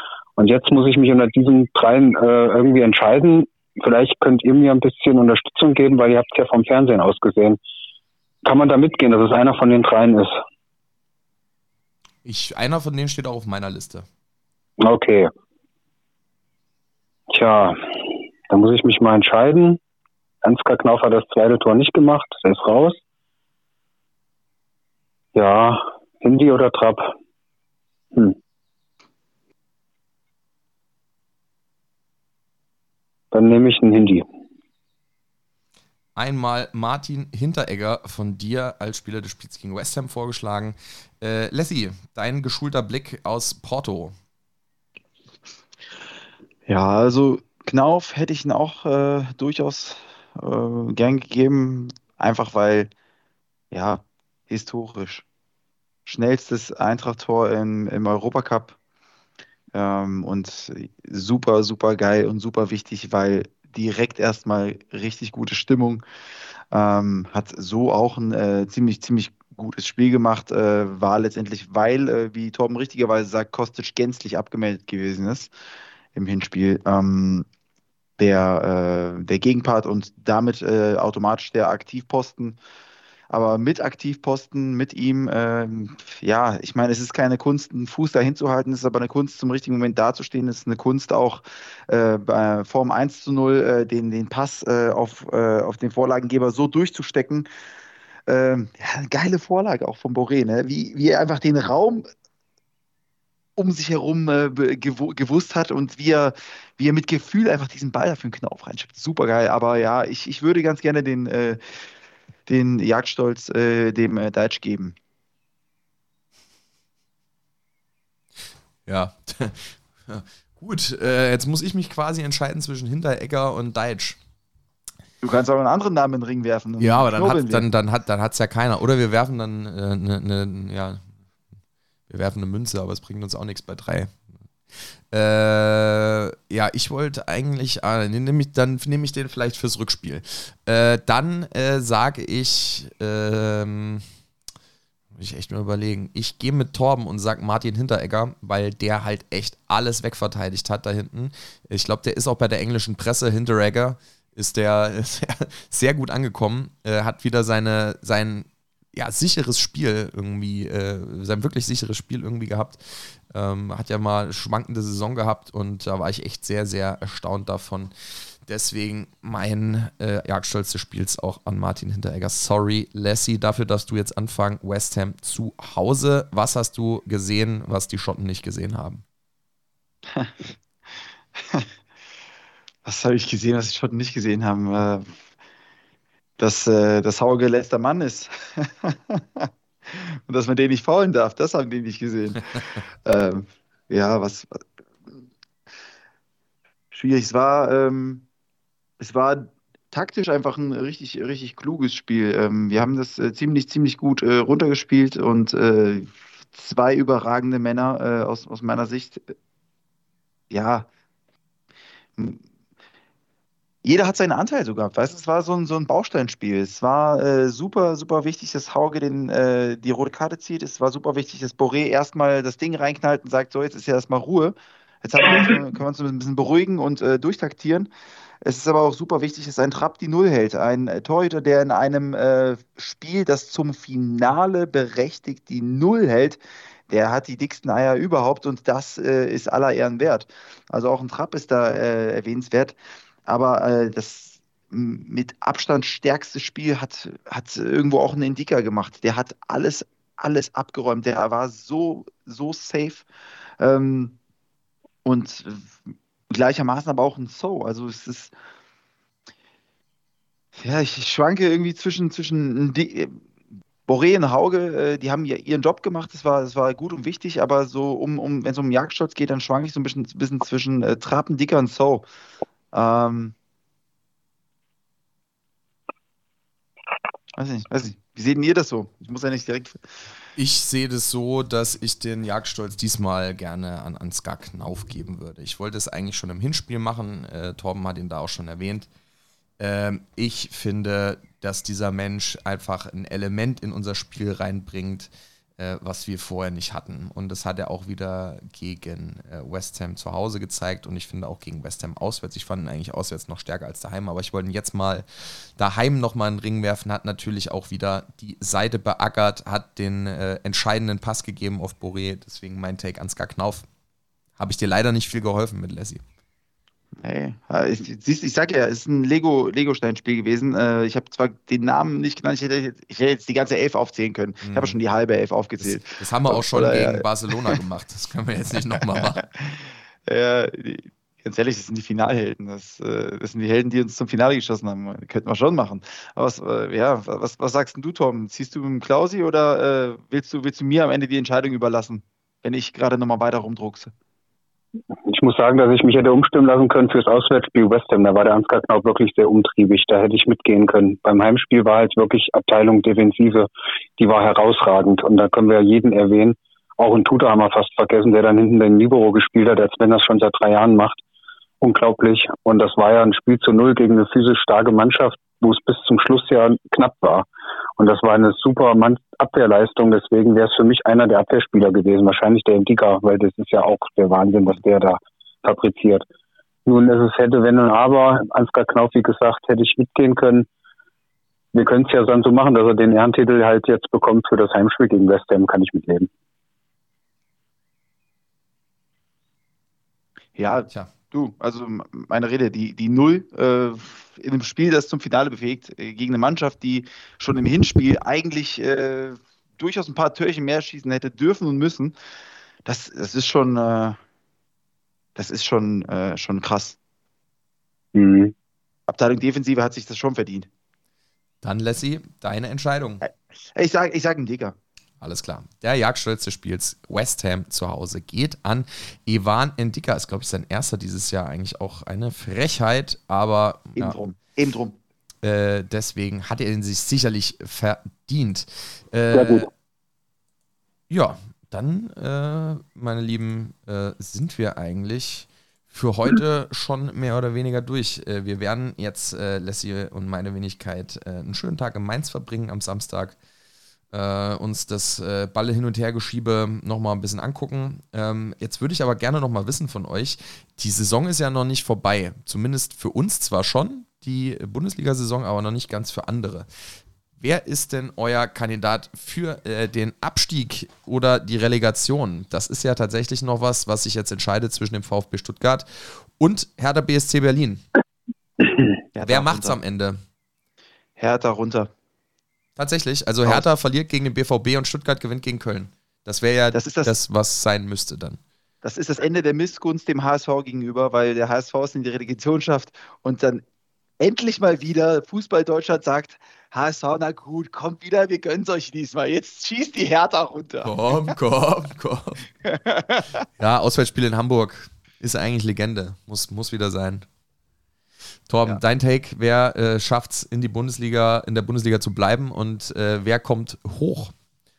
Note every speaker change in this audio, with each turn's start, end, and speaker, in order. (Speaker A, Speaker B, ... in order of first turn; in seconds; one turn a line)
Speaker A: 0.4-7.6
Speaker A: 8.4-10.3
Speaker B: 12.2-14.1
Speaker A: 14.8-15.3
Speaker A: 17.3-19.8
Speaker A: 20.4-23.0
Speaker A: 25.3-27.1
Speaker A: 33.3-34.2
Speaker B: 36.1-44.1
Speaker C: 46.7-52.9
Speaker C: 53.7-55.2
Speaker C: 56.0-58.8
Speaker C: 59.7-66.0
Speaker C: 66.7-75.5
Speaker C: 76.1-77.5
Speaker C: 78.2-82.6
Speaker C: 83.3-97.5
Speaker C: 98.3-102.0
Speaker C: 103.6-111.6
Speaker C: 112.5-114.9
Speaker B: 118.8-124.2
Speaker C: 125.2-127.6
Speaker B: 126.8-131.0
Speaker B: 132.1-134.2
Speaker B: 135.1-144.1
Speaker B: 145.1-167.9
Speaker B: 168.4-179.0
Speaker C: 180.1-180.5
Speaker C: 181.4-181.7
Speaker C: 182.8-185.1
Speaker C: 186.4-194.6
Speaker C: 196.9-198.2
Speaker C: 199.0-209.2
Speaker C: 210.5-210.9
Speaker C: 213.8-227.9
Speaker C: 228.4-236.4
Speaker C: 236.9-242.7
Speaker C: 243.3-253.0
Speaker C: 253.6-254.2
Speaker C: 255.0-255.7
Speaker C: 256.3-258.3
Speaker C: 260.6-263.2
Speaker C: 263.9-272.0
Speaker C: 272.7-273.3
Speaker C: 277.4-279.8
Speaker B: 280.4-288.9
Speaker B: 289.6-313.6
Speaker B: 314.4-316.0
Speaker C: 317.0-327.6
Speaker B: 324.4-324.8
Speaker B: 325.6-329.2
Speaker C: 328.8-343.9
Speaker A: 345.1-361.0
Speaker A: 361.6-367.2
Speaker A: 367.8-376.1
Speaker A: 376.6-380.5
Speaker A: 381.5-386.1
Speaker C: 390.4-401.9
Speaker C: 402.6-404.0
Speaker C: 405.1-406.8
Speaker A: 407.9-408.3
Speaker C: 408.9-410.5
Speaker B: 411.4-413.0
Speaker C: 413.1-414.5
Speaker B: 415.0-423.9
Speaker C: 423.8-424.8
Speaker B: 425.2-429.5
Speaker A: 429.1-429.5
Speaker B: 430.9-443.2
Speaker B: 443.9-456.5
Speaker B: 457.2-467.6
Speaker C: 468.9-469.6
Speaker B: 469.0-470.0
Speaker C: 471.0-471.7
Speaker B: 472.6-478.2
Speaker C: 476.5-476.9
Speaker C: 478.6-483.4
Speaker C: 484.0-491.1
Speaker B: 490.6-492.2
Speaker C: 492.4-493.2
Speaker B: 493.4-497.1
Speaker B: 498.3-504.1